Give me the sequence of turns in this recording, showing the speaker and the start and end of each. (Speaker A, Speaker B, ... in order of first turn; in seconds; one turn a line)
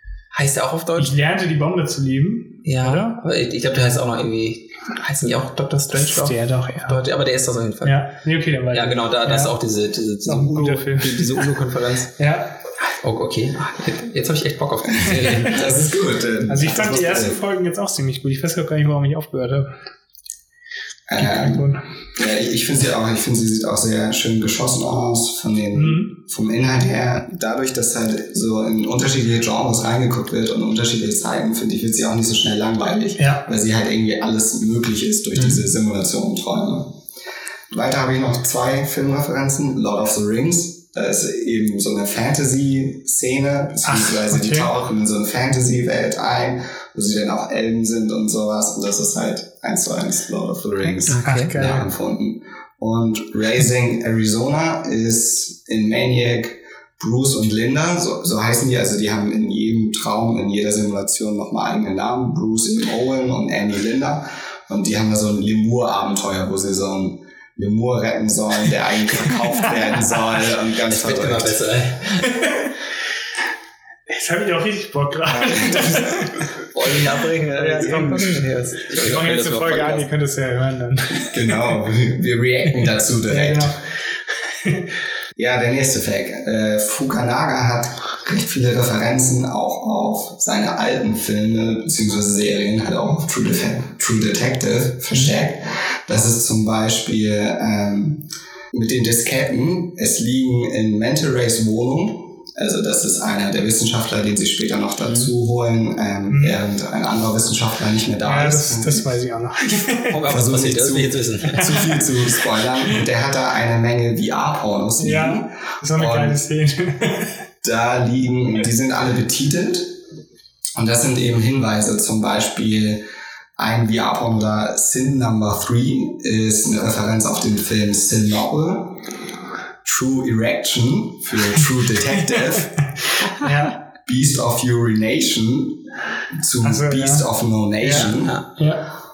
Speaker A: 0.3-1.1
Speaker B: 1.0-3.2
Speaker A: 2.6-8.1
Speaker B: 5.9-7.0
Speaker B: 7.8-9.5
Speaker A: 8.7-12.1
Speaker B: 10.2-11.6
Speaker B: 12.2-12.6
Speaker A: 12.8-15.9
Speaker C: 15.0-17.4
Speaker B: 16.5-19.7
Speaker C: 21.1-37.0
Speaker B: 21.2-21.8
Speaker B: 25.7-26.1
Speaker B: 33.2-33.4
Speaker A: 35.4-35.6
Speaker C: 37.7-71.6
Speaker B: 43.8-44.7
Speaker B: 50.8-51.9
Speaker A: 51.1-51.5
Speaker A: 70.9-72.3
Speaker B: 72.3-72.7
Speaker B: 74.1-76.5
Speaker A: 75.3-80.1
Speaker B: 77.6-81.7
Speaker C: 81.3-83.8
Speaker B: 83.3-83.8
Speaker B: 84.6-84.8
Speaker C: 85.3-109.1
Speaker A: 105.0-105.3
Speaker B: 106.3-106.6
Speaker B: 108.2-110.2
Speaker A: 110.1-111.9
Speaker C: 110.2-116.4
Speaker B: 115.0-117.3
Speaker C: 117.6-119.9
Speaker C: 120.8-123.0
Speaker C: 123.6-129.1
Speaker C: 129.8-132.8
Speaker B: 133.4-133.8
Speaker C: 133.9-135.8
Speaker C: 136.3-138.4
Speaker B: 136.6-137.2
Speaker B: 137.8-138.8
Speaker A: 137.9-138.5